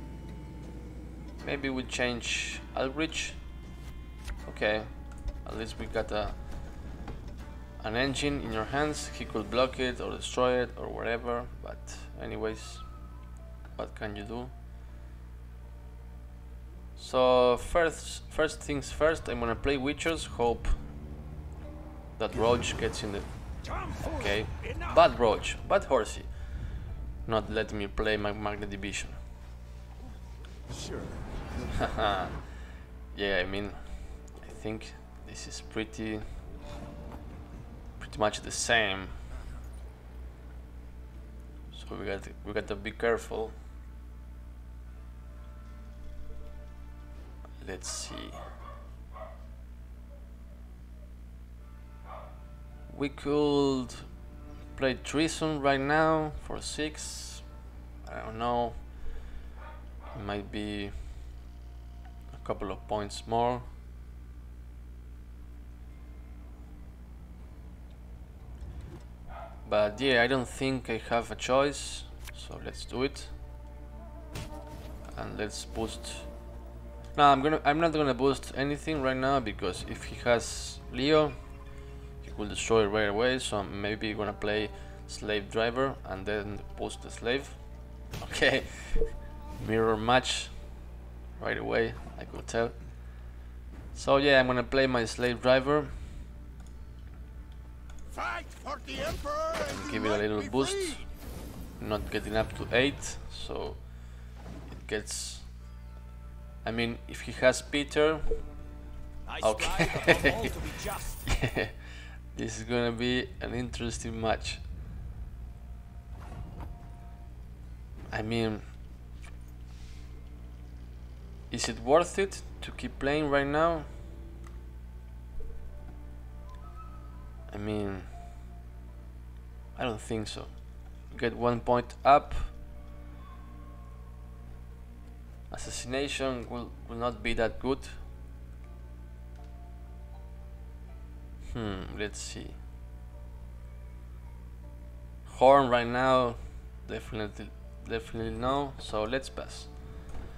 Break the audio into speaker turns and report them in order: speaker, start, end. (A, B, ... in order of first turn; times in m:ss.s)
0:01.4-0:03.4 A
0:04.4-0:06.4 A
0:07.8-0:12.9 A
0:13.8-0:14.5 A
0:17.0-0:20.8 A
0:22.2-0:26.6 A
0:23.6-0:25.0 B
0:27.2-0:29.2 A
0:30.6-0:32.0 B
0:31.8-0:36.3 A
0:38.0-0:39.2 A
0:41.7-0:43.6 A
0:47.6-0:48.4 A
0:52.9-0:54.1 A
0:54.7-0:57.4 A
0:58.0-0:59.1 A
1:00.1-1:01.3 A
1:02.3-1:03.6 A
1:09.6-1:13.3 A
1:15.2-1:16.3 A
1:17.1-1:21.4 A
1:22.2-1:27.7 A
1:28.2-1:33.2 A
1:33.9-1:36.1 A
1:38.1-1:41.1 B
1:39.7-1:41.0 A
1:41.8-1:45.5 A
1:46.6-1:48.4 A
1:49.2-1:51.4 B
1:49.4-1:50.5 A
1:51.3-1:54.6 A
1:58.1-1:58.6 A
2:01.5-2:03.9 A
2:07.5-2:08.2 A
2:09.7-2:12.5 A
2:15.5-2:18.0 A
2:21.5-2:22.6 A
2:25.2-2:30.1 A